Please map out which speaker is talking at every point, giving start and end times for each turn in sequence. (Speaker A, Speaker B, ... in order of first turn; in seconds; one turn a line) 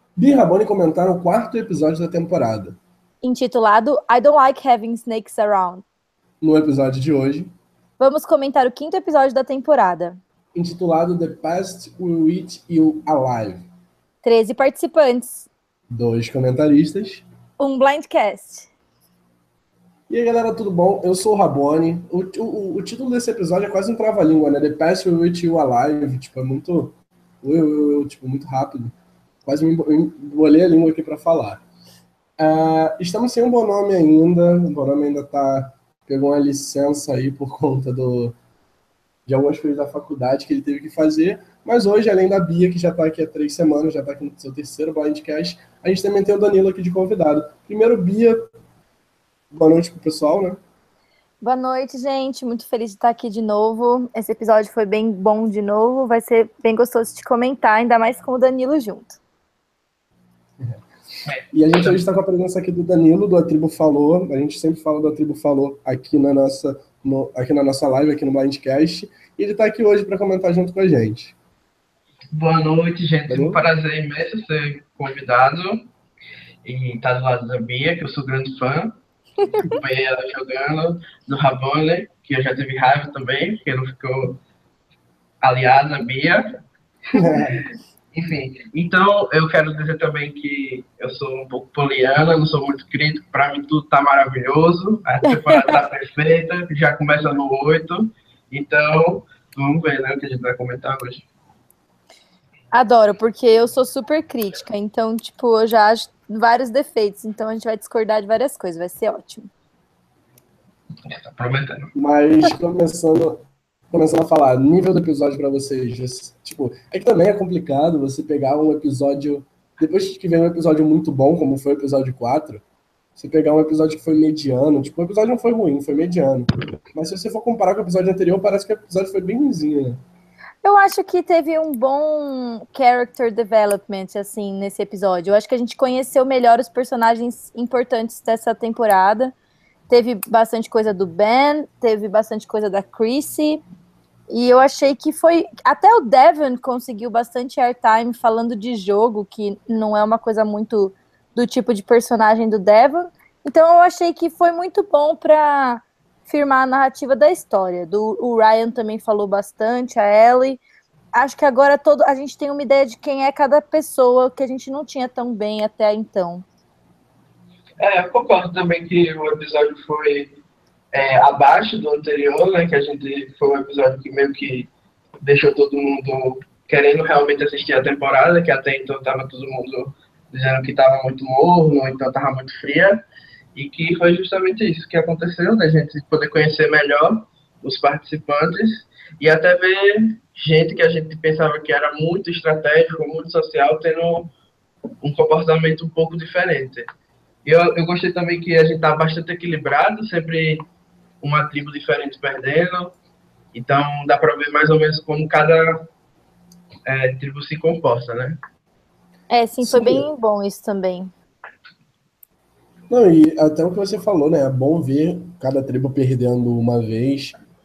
Speaker A: 0.1-2.8
Speaker B: 3.2-5.8
Speaker A: 6.4-7.5
Speaker B: 8.0-10.2
Speaker A: 10.5-13.7
Speaker B: 14.2-15.5
Speaker A: 15.9-17.2
Speaker B: 17.6-18.7
Speaker A: 20.1-31.6
Speaker A: 32.4-38.4
Speaker A: 39.3-48.5
Speaker A: 49.5-50.6
Speaker B: 51.4-59.2
Speaker C: 61.2-62.0
Speaker A: 61.5-71.3
Speaker C: 72.3-75.9
Speaker A: 73.3-73.6
Speaker C: 76.6-79.0
Speaker C: 79.6-84.4
Speaker C: 85.4-86.6
Speaker C: 87.1-87.5
Speaker A: 87.2-87.6
Speaker C: 88.1-101.2
Speaker B: 95.2-95.8
Speaker B: 102.7-109.5
Speaker C: 111.0-111.9
Speaker A: 111.9-122.6
Speaker A: 123.2-130.0
Speaker B: 130.6-139.3
Speaker B: 139.9-143.6
Speaker B: 144.3-160.6
Speaker B: 161.1-166.4
Speaker C: 167.8-170.4
Speaker C: 170.9-174.7
Speaker C: 175.2-183.0
Speaker C: 183.5-194.3
Speaker C: 195.0-196.8
Speaker C: 197.4-200.6
Speaker C: 201.2-202.9
Speaker C: 203.5-205.9
Speaker C: 206.8-208.4
Speaker B: 209.3-211.1
Speaker A: 209.6-210.1
Speaker A: 212.9-217.3